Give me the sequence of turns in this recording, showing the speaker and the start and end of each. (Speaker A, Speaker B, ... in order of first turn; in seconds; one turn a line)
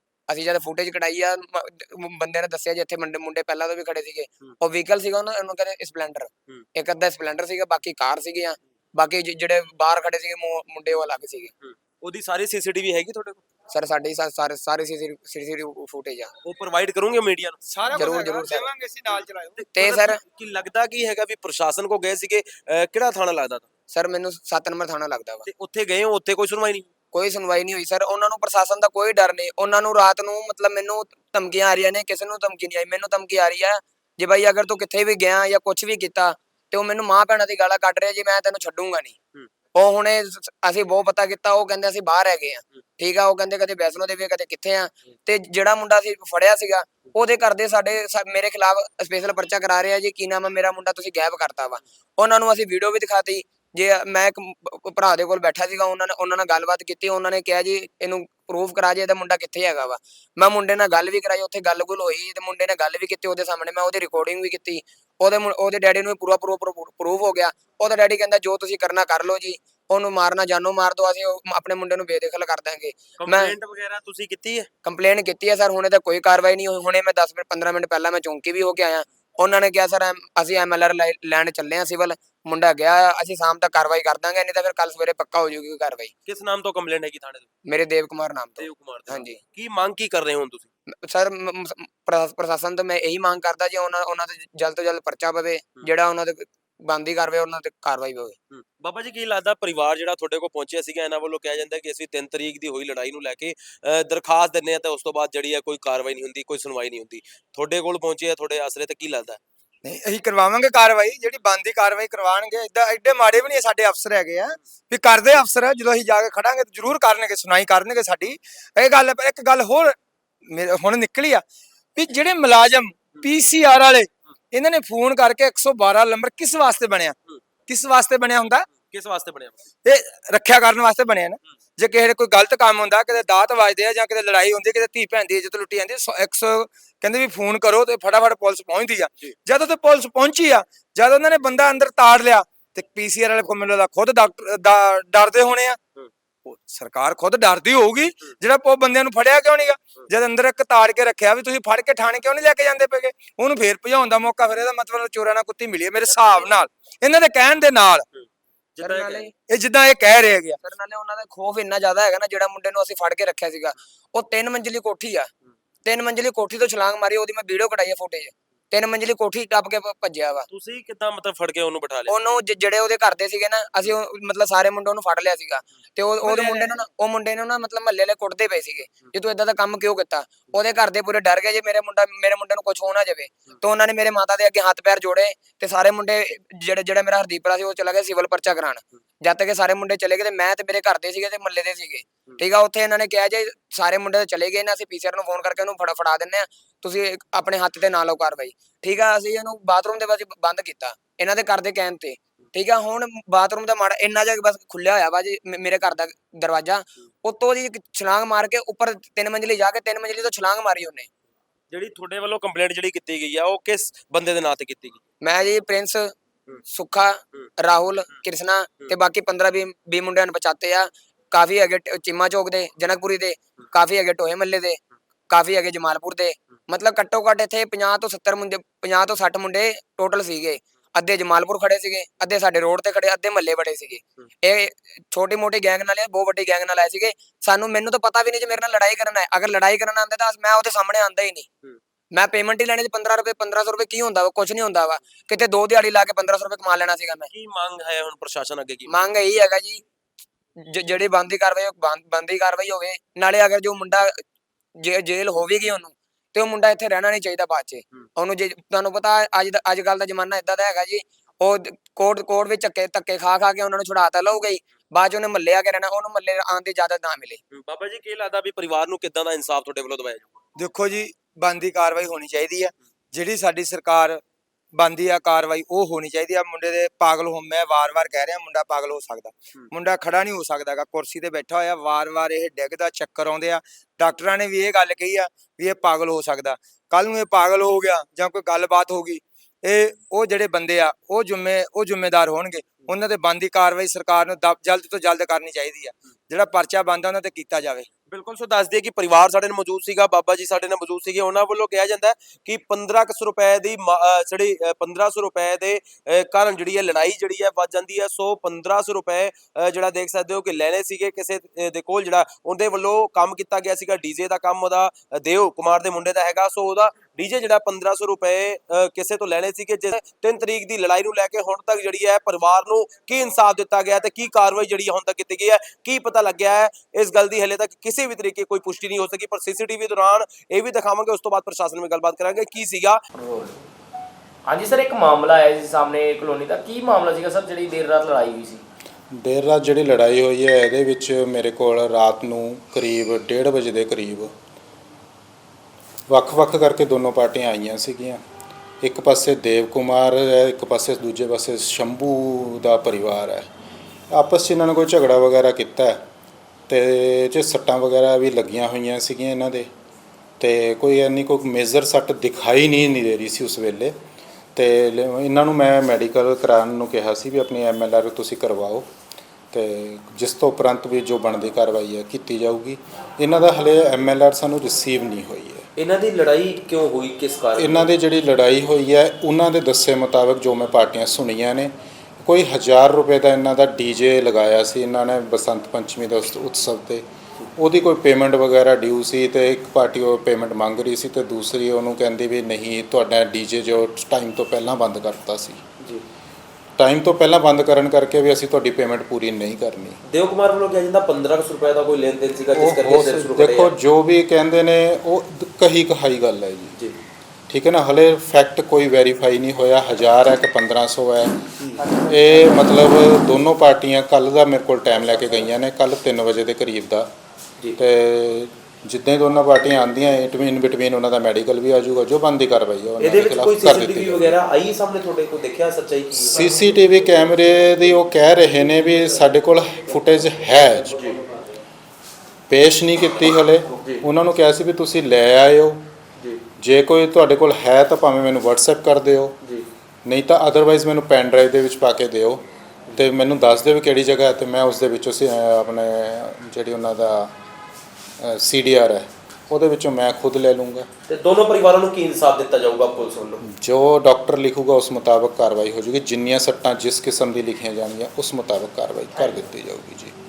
Speaker A: 0.3-11.5
Speaker B: 11.6-13.4
Speaker A: 13.7-16.3
Speaker B: 16.4-17.6
Speaker C: 17.7-19.6
Speaker A: 17.9-18.7
Speaker B: 19.1-23.7
Speaker A: 19.7-20.2
Speaker A: 23.9-25.5
Speaker B: 25.4-26.9
Speaker A: 27.1-39.1
Speaker A: 39.7-73.5
Speaker B: 73.2-74.7
Speaker A: 74.8-86.1
Speaker B: 86.2-87.5
Speaker A: 87.7-89.4
Speaker B: 88.6-90.7
Speaker A: 90.9-98.3
Speaker B: 98.5-109.4
Speaker C: 109.8-121.4
Speaker C: 122.0-127.2
Speaker C: 127.7-128.7
Speaker B: 128.7-129.6
Speaker C: 129.8-145.8
Speaker C: 146.5-158.1
Speaker B: 156.1-156.6
Speaker B: 158.8-159.3
Speaker A: 158.8-159.3
Speaker C: 159.4-160.6
Speaker A: 160.6-165.3
Speaker A: 165.8-170.5
Speaker B: 170.5-172.2
Speaker A: 172.1-211.1
Speaker B: 176.2-176.8
Speaker B: 211.7-215.0
Speaker A: 215.2-216.1
Speaker A: 216.7-224.8
Speaker A: 225.3-241.5
Speaker A: 242.1-247.3
Speaker B: 247.3-249.0
Speaker A: 248.9-249.8
Speaker A: 250.6-254.2
Speaker A: 254.8-267.4
Speaker B: 267.5-270.3
Speaker C: 270.6-274.2
Speaker C: 274.7-297.9
Speaker B: 298.1-333.0
Speaker D: 333.1-333.6
Speaker D: 334.5-338.6
Speaker E: 339.1-344.3
Speaker E: 346.1-348.2
Speaker E: 348.8-353.5
Speaker E: 354.1-356.0
Speaker E: 356.7-359.7
Speaker E: 360.4-363.9
Speaker E: 364.5-368.9
Speaker E: 369.5-375.6
Speaker B: 375.8-377.9
Speaker E: 377.6-387.1
Speaker E: 387.6-395.6
Speaker E: 396.8-400.0
Speaker B: 400.1-403.7
Speaker E: 402.5-406.8
Speaker E: 407.5-411.4
Speaker E: 411.9-417.1
Speaker E: 417.8-424.3
Speaker B: 423.0-426.4
Speaker E: 426.3-431.1
Speaker E: 432.5-435.8
Speaker E: 436.6-439.3
Speaker E: 440.0-447.3
Speaker E: 448.2-450.9
Speaker B: 451.1-453.4
Speaker E: 453.4-460.1